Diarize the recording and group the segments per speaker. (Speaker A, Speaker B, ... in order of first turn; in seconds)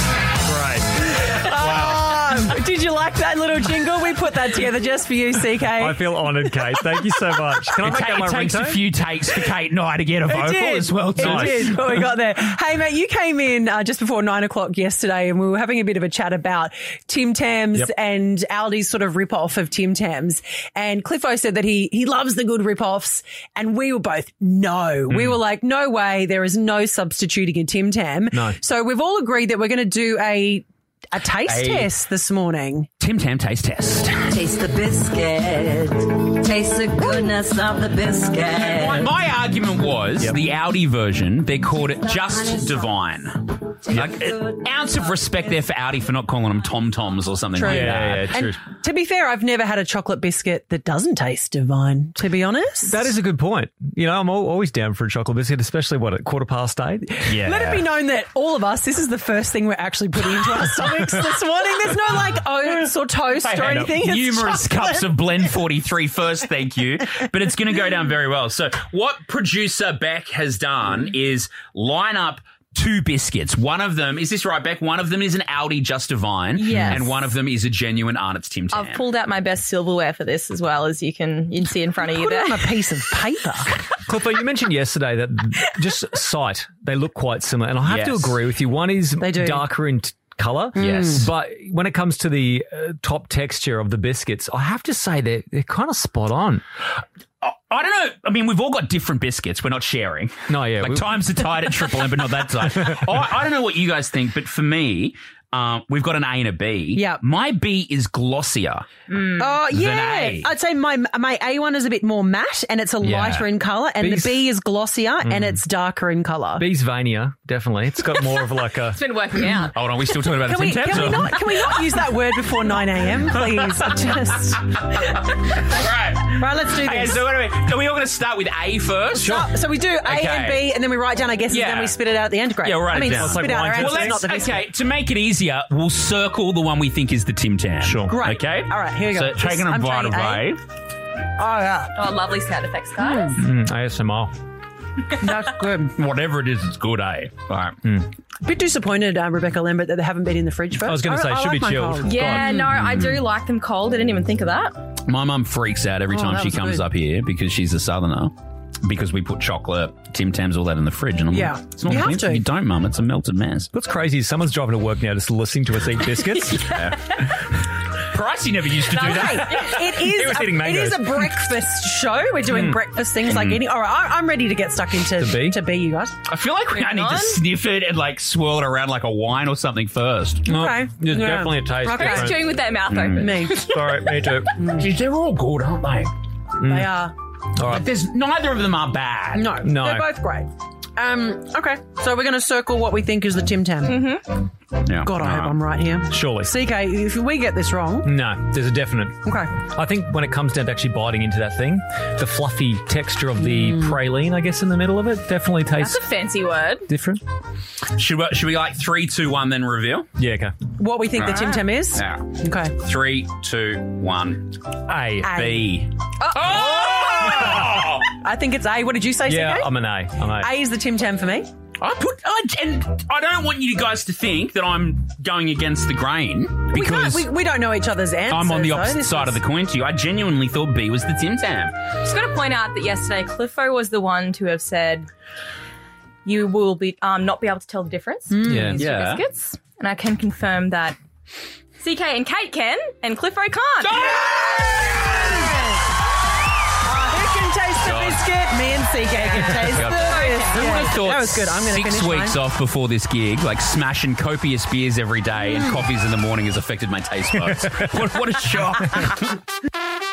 Speaker A: 0.4-2.4, 5.7-8.8, 11.2-12.0, 25.1-25.4, 47.6-48.6, 52.9-57.6, 84.0-96.6, 100.5-101.1, 113.0-113.5, 114.0-114.4, 115.2-115.6, 116.6-119.0, 129.2-129.5, 133.1-134.2, 137.8-138.2, 143.4-144.3, 150.8-152.6, 163.7-166.8, 169.5-171.3, 172.5-172.8, 175.2-175.6, 180.5-182.4, 183.5-184.6, 186.6-186.9, 187.6-187.8, 189.6-190.1, 196.1-196.5, 198.0-206.0, 206.9-207.2, 210.2-210.5, 214.9-215.3, 219.2-220.5, 238.4-238.8
Speaker B: 1.2-6.9, 10.3-32.9, 47.5-53.1, 57.3-64.8, 82.1-83.7, 89.2-89.6, 90.8-91.3, 106.9-107.2, 109.4-116.6, 120.4-124.7, 126.3-127.2, 129.1-134.6, 138.1-140.4, 141.4-141.9, 143.0-143.4, 145.2-145.9, 148.4-152.7, 156.1-156.8, 161.3-162.4, 168.9-176.1, 180.5-182.3, 183.2-183.7, 184.6-184.8, 186.6-187.1, 189.3-194.1, 195.0-198.1, 199.2-199.5, 203.4-203.9, 210.8-212.8, 215.2-215.7, 218.1-221.5, 226.7-229.4, 238.3-238.8, 244.0-245.8, 246.8-252.4
Speaker C: 7.8-11.8, 31.4-31.9, 33.0-34.3, 38.6-48.4, 57.3-57.8, 63.4-79.0, 87.8-88.4, 90.8-91.3, 97.4-108.9, 109.7-110.5, 119.7-121.6, 123.3-123.9, 124.8-129.4, 130.0-130.7, 131.5-132.0, 132.6-140.6, 145.9-147.8, 152.8-153.2, 155.0-163.7, 166.6-167.2, 168.0-169.7, 173.2-173.6, 176.2-180.5, 182.9-183.3, 184.6-186.1, 187.6-189.6, 194.8-195.6, 207.9-210.1, 211.2-214.6, 215.2-218.1, 221.8-227.3, 228.3-231.8, 238.8-239.2, 243.8-245.6, 247.8-248.2, 249.4-259.4
Speaker D: 34.3-39.1
Speaker E: 76.5-77.2, 78.7-82.7, 109.1-109.6, 118.9-119.8, 141.9-143.4, 152.0-154.8, 166.9-167.2, 169.1-169.5, 176.7-177.4, 181.9-183.9, 193.8-194.2, 205.8-206.9, 211.3-211.6, 216.2-217.4, 232.0-235.1, 236.2-241.0, 241.8-244.0, 249.1-251.1